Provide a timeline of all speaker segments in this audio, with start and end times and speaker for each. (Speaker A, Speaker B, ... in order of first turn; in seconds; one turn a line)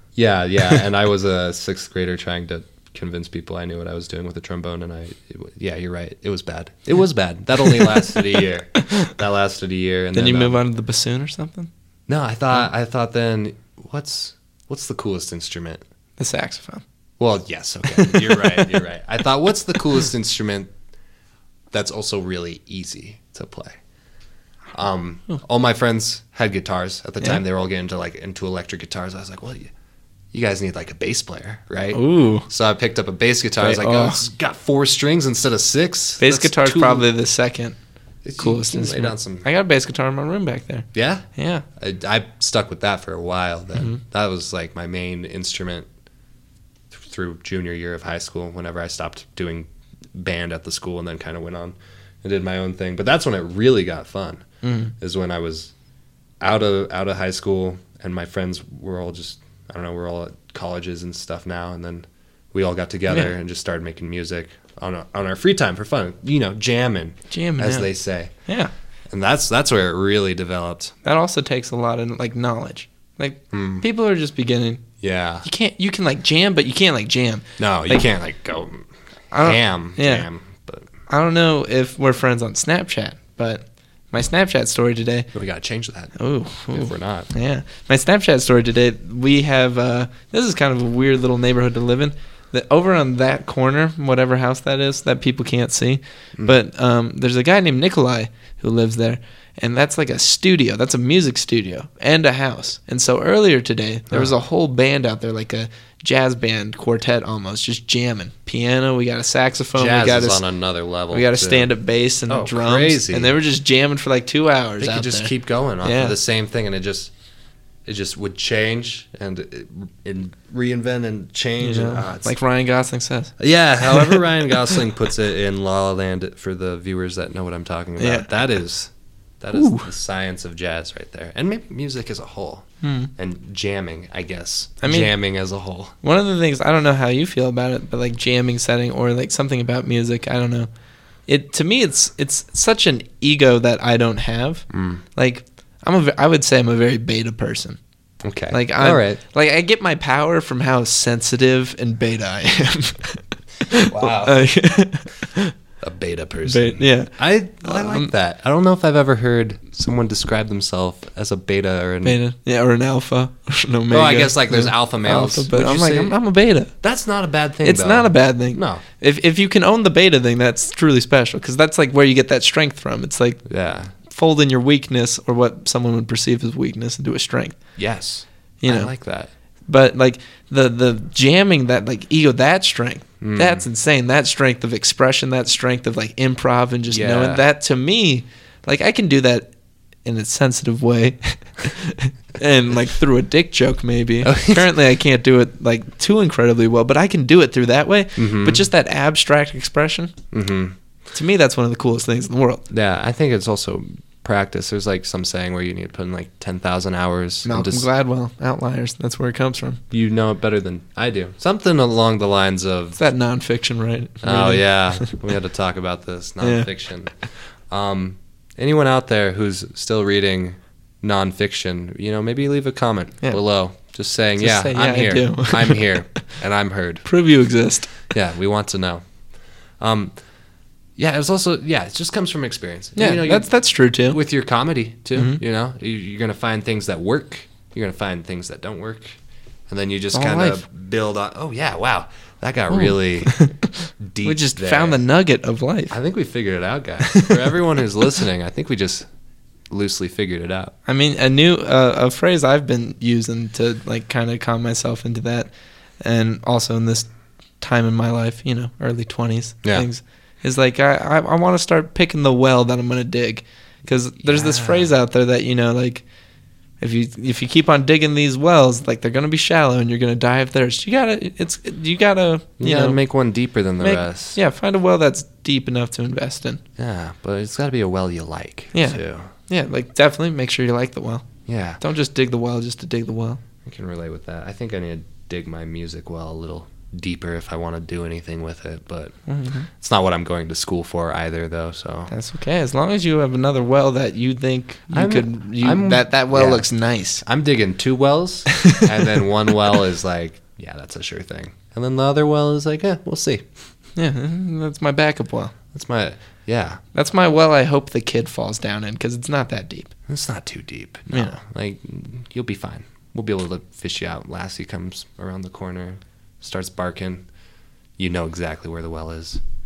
Speaker A: 0.2-10.6
Speaker B: 7.7-8.2
Speaker B: 10.1-11.7
Speaker A: 12.1-15.8
Speaker B: 16.2-16.8
Speaker A: 17.2-20.7
Speaker B: 17.9-18.8
Speaker A: 21.7-23.8
Speaker A: 24.7-29.7
Speaker A: 30.3-37.1
Speaker B: 31.9-32.5
Speaker B: 33.6-34.2
Speaker B: 36.2-37.8
Speaker A: 38.2-39.5
Speaker B: 38.4-41.6
Speaker A: 40.9-41.2
Speaker A: 41.8-45.9
Speaker A: 46.9-54.5
Speaker B: 54.6-54.9
Speaker A: 55.0-55.7
Speaker A: 56.4-68.3
Speaker B: 63.1-63.3
Speaker B: 67.3-67.9
Speaker B: 68.5-68.7
Speaker A: 69.1-70.9
Speaker B: 71.0-74.8
Speaker A: 73.5-73.8
Speaker A: 75.0-75.5
Speaker B: 75.4-78.1
Speaker A: 77.6-78.9
Speaker B: 79.3-80.3
Speaker A: 79.4-80.9
Speaker B: 81.1-85.3
Speaker A: 85.3-86.2
Speaker B: 86.2-110.4
Speaker A: 86.7-87.3
Speaker A: 109.8-111.7
Speaker B: 111.1-115.3
Speaker A: 112.3-113.3
Speaker A: 114.8-117.1
Speaker B: 115.8-116.2
Speaker A: 117.9-122.3
Speaker B: 121.6-123.3
Speaker A: 123.4-128.9
Speaker B: 123.8-124.2
Speaker B: 128.0-128.3
Speaker A: 129.4-136.0
Speaker B: 129.5-129.9
Speaker B: 132.8-133.1
Speaker B: 134.8-135.1
Speaker B: 136.0-140.7
Speaker B: 141.3-147.8
Speaker A: 144.7-145.0
Speaker A: 148.2-149.2
Speaker B: 148.5-155.5
Speaker A: 153.9-154.4
Speaker A: 155.8-162.2
Speaker B: 156.5-158.1
Speaker B: 162.0-166.7
Speaker A: 163.9-166.2
Speaker A: 166.8-168.8
Speaker B: 167.6-173.4
Speaker A: 173.5-173.9
Speaker B: 174.0-177.6
Speaker A: 177.8-179.3
Speaker B: 178.6-178.9
Speaker B: 179.7-189.5
Speaker A: 183.2-183.7
Speaker A: 186.9-187.4
Speaker B: 190.1-200.2
Speaker A: 194.2-194.7
Speaker A: 198.2-198.7
Speaker A: 200.3-200.8
Speaker B: 201.1-202.6
Speaker A: 202.7-207.9
Speaker B: 207.4-209.8
Speaker A: 209.9-213.0
Speaker B: 213.0-215.1
Speaker A: 214.2-217.1
Speaker B: 216.4-216.7
Speaker A: 217.7-227.1
Speaker B: 224.4-226.2
Speaker B: 227.1-228.0
Speaker A: 228.1-229.0
Speaker A: 229.8-230.1
Speaker A: 231.0-233.5
Speaker B: 233.0-234.2
Speaker A: 234.1-239.2
Speaker B: 235.2-235.4
Speaker A: 239.7-243.4
Speaker B: 240.1-240.6
Speaker B: 242.7-245.9
Speaker A: 244.0-245.0
Speaker A: 245.9-249.1
Speaker B: 247.1-247.4
Speaker A: 249.7-250.7
Speaker B: 250.9-257.1
Speaker B: 257.6-266.0
Speaker A: 264.2-264.9
Speaker B: 266.8-273.0
Speaker A: 272.6-274.4
Speaker B: 273.8-276.6
Speaker A: 276.8-279.3
Speaker B: 278.7-281.3
Speaker A: 281.5-281.8
Speaker B: 281.8-283.4
Speaker A: 283.6-289.2
Speaker B: 289.3-289.7
Speaker A: 289.8-292.1
Speaker B: 292.1-297.2
Speaker A: 294.9-296.7
Speaker A: 297.2-303.4
Speaker B: 304.0-305.5
Speaker A: 305.7-306.8
Speaker B: 306.9-309.9
Speaker A: 310.1-317.2
Speaker B: 311.1-311.4
Speaker A: 318.0-319.4